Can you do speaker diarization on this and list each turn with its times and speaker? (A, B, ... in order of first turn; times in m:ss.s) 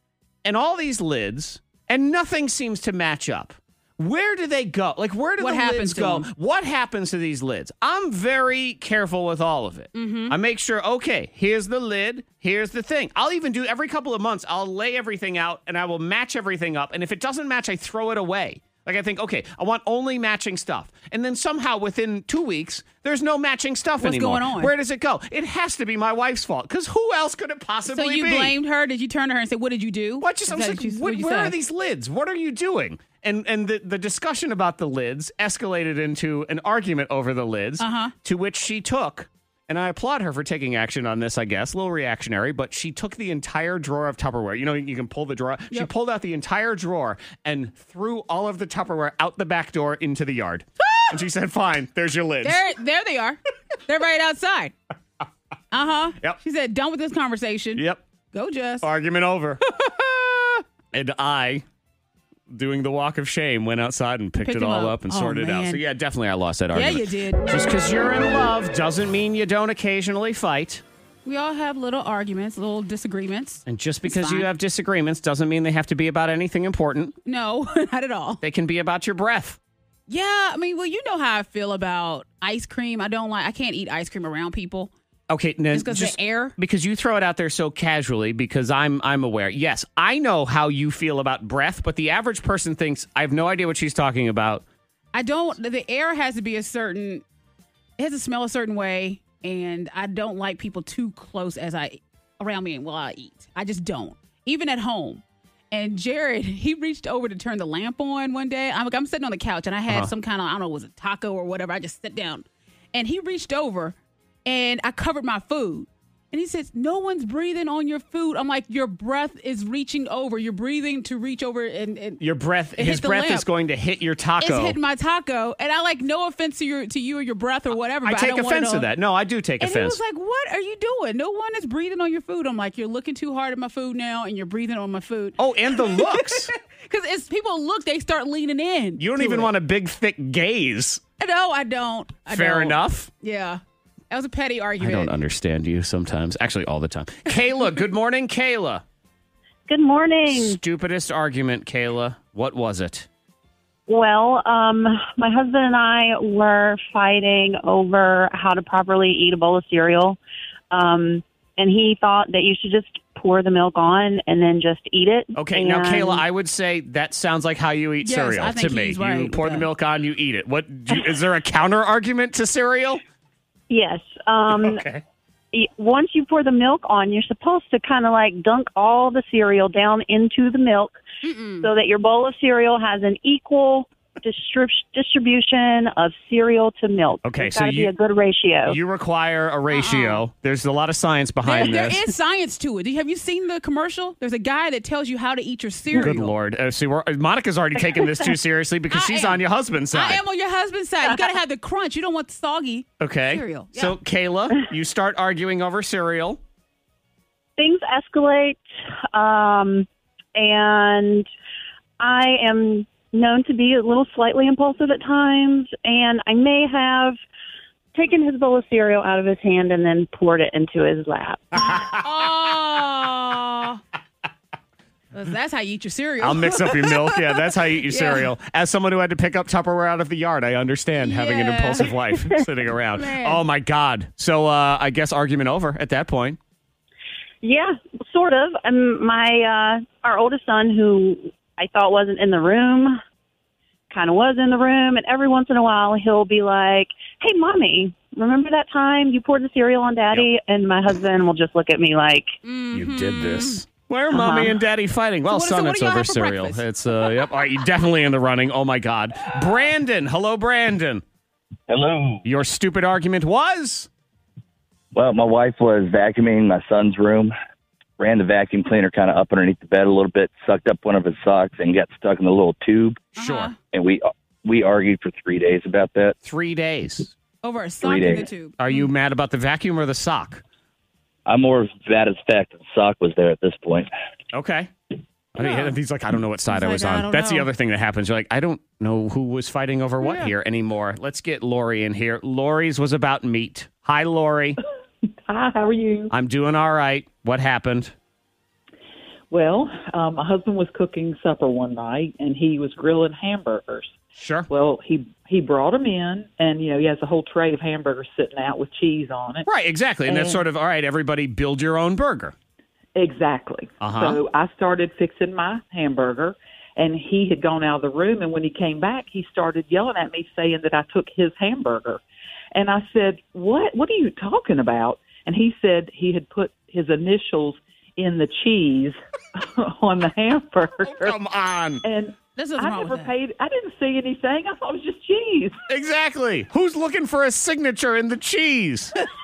0:00.4-0:28.5 A
0:05.4-0:06.3 B
0:09.9-0:10.4 B
0:24.0-0:24.7 B
0:27.9-0:31.6 B
0:30.2-0:52.6 A
0:37.8-0:38.1 B
0:52.4-0:54.7 B
0:55.7-0:58.9 B
0:57.7-0:58.0 A
0:58.8-0:59.6 A
0:59.7-1:00.6 B
1:00.9-1:01.6 A
1:02.5-1:10.8 A
1:04.4-1:05.8 B
1:06.7-1:07.5 B
1:11.2-1:14.5 B
1:13.6-1:17.1 A
1:17.2-1:18.4 B
1:18.4-1:19.6 A
1:20.1-1:24.9 B
1:25.3-1:34.6 A
1:25.7-1:26.5 B
1:35.1-1:37.2 B
1:38.0-2:02.2 B
2:02.2-2:04.8 A
2:02.8-2:03.5 B
2:04.4-2:08.9 B
2:08.0-2:10.0 A
2:09.6-2:19.5 B
2:15.4-2:16.5 A
2:19.0-2:21.0 A
2:21.2-2:25.1 B
2:22.3-2:23.1 A
2:24.8-2:28.8 A
2:29.7-2:30.6 C
2:30.3-2:33.1 A
2:33.9-2:40.2 C
2:40.7-2:46.2 C
2:45.4-2:53.0 A
2:48.0-2:49.7 B
2:53.7-2:54.8 C
2:54.5-2:55.0 A
2:55.5-3:01.0 C
3:01.2-3:01.7 B
3:01.6-3:08.8 C
3:07.2-3:07.9 A
3:08.7-3:12.1 A
3:09.7-3:10.2 B
3:11.4-3:16.4 B
3:15.9-3:20.2 A
3:18.9-3:24.0 B
3:23.0-3:26.4 A
3:27.6-3:28.6 C
3:29.1-3:31.3 C
3:32.0-3:37.2 C
3:37.9-3:41.6 C
3:41.7-3:43.8 B
3:45.1-3:48.3 B
3:46.2-3:56.4 A
3:51.0-3:52.2 B
3:52.9-3:53.4 B
3:57.4-4:03.0 C
4:03.9-4:12.3 C
4:12.4-4:14.5 B
4:12.7-4:21.0 A
4:15.3-4:16.6 B
4:21.7-4:22.2 D
4:22.2-4:23.9 A
4:24.9-4:27.3 D
4:28.0-4:33.0 D
4:33.2-4:33.6 B
4:33.2-4:33.5 A
4:33.7-4:36.1 D
4:36.2-4:37.1 A
4:37.4-4:38.9 B
4:37.8-4:38.2 D
4:38.6-4:40.4 A
4:41.3-4:43.9 D
4:44.3-4:44.7 A
4:45.3-4:54.6 A
4:45.4-4:45.8 B
4:46.5-4:47.5 B
4:50.0-4:50.3 B
4:55.2-4:56.1 E
4:56.1-4:57.9 A
4:59.3-5:03.9 E
5:04.2-5:04.5 A
5:04.5-5:09.5 E
5:09.4-5:12.3 A
5:10.1-5:10.4 E
5:12.9-5:22.0 E
5:13.8-5:14.2 A
5:22.5-5:31.2 E
5:30.8-5:31.8 A
5:31.8-5:35.6 E
5:32.4-5:33.1 B
5:35.7-5:39.0 A